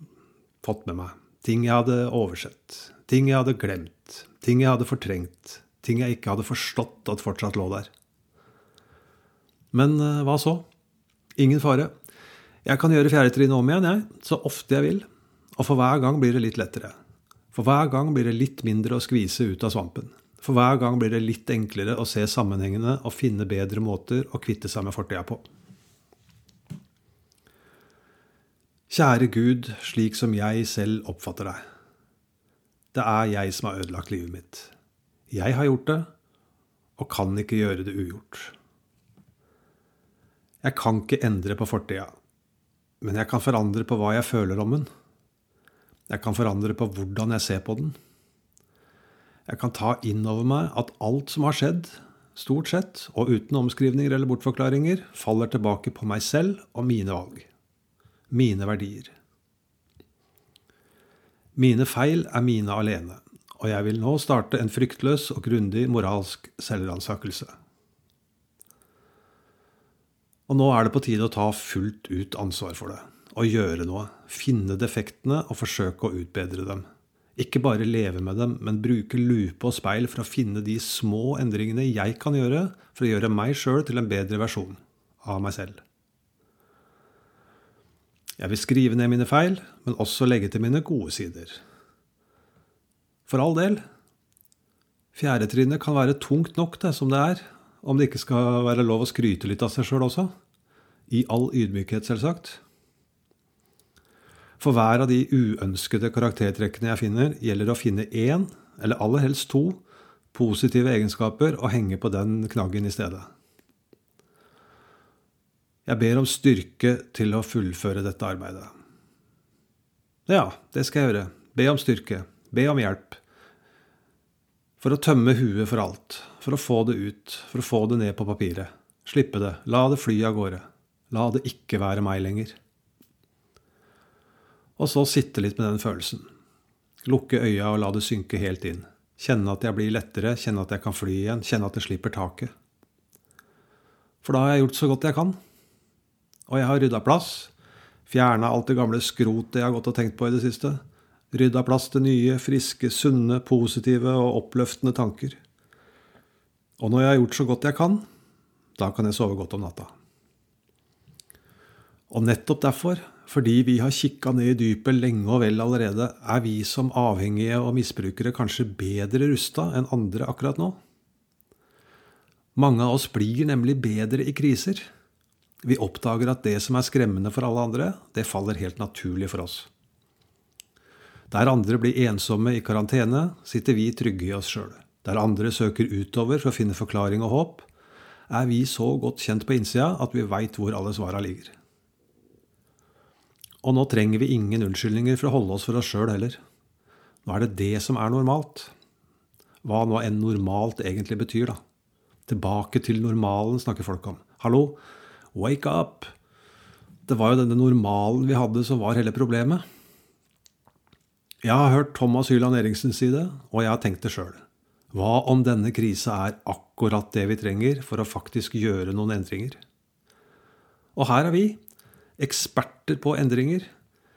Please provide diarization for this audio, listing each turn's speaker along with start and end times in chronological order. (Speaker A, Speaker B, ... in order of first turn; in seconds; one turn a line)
Speaker A: 0.6-7.9
Speaker A: 9.7-10.6
Speaker A: 11.4-11.9
Speaker A: 12.6-16.9
Speaker A: 17.5-25.4
Speaker A: 28.9-31.6
Speaker A: 32.9-34.7
Speaker A: 35.3-36.1
Speaker A: 37.0-38.5
Speaker A: 40.6-42.1
Speaker A: 43.0-44.9
Speaker A: 46.1-48.0
Speaker A: 49.5-57.5
Speaker A: 58.3-59.1
Speaker A: 61.6-67.5
Speaker A: 70.5-76.8
Speaker A: 77.4-85.8
Speaker A: 88.4-91.6
Speaker A: 93.3-93.8
Speaker A: 95.1-100.3
Speaker A: 101.1-102.6
Speaker A: 104.6-109.8
Speaker A: 110.3-113.3
Speaker A: 115.9-118.7
Speaker A: 120.3-123.2
Speaker A: 124.8-132.6
Speaker A: 134.8-136.3
Speaker A: 137.1-142.5
Speaker A: 144.2-145.4
Speaker A: 146.5-147.5
Speaker A: 148.1-150.8
Speaker A: 151.3-155.4
Speaker A: 156.8-158.0
Speaker A: 158.8-159.9
Speaker A: 162.1-170.8
Speaker A: 172.6-174.9
Speaker A: 175.6-179.7
Speaker A: 181.3-187.7
Speaker A: 188.3-191.6
Speaker A: 193.6-196.4
Speaker A: 197.2-198.7
Speaker A: 199.6-201.6
Speaker A: 202.3-204.8
Speaker A: 205.3-206.1
Speaker A: 207.1-209.6
Speaker A: 211.4-219.6
Speaker A: 220.9-221.6
Speaker A: 222.2-223.7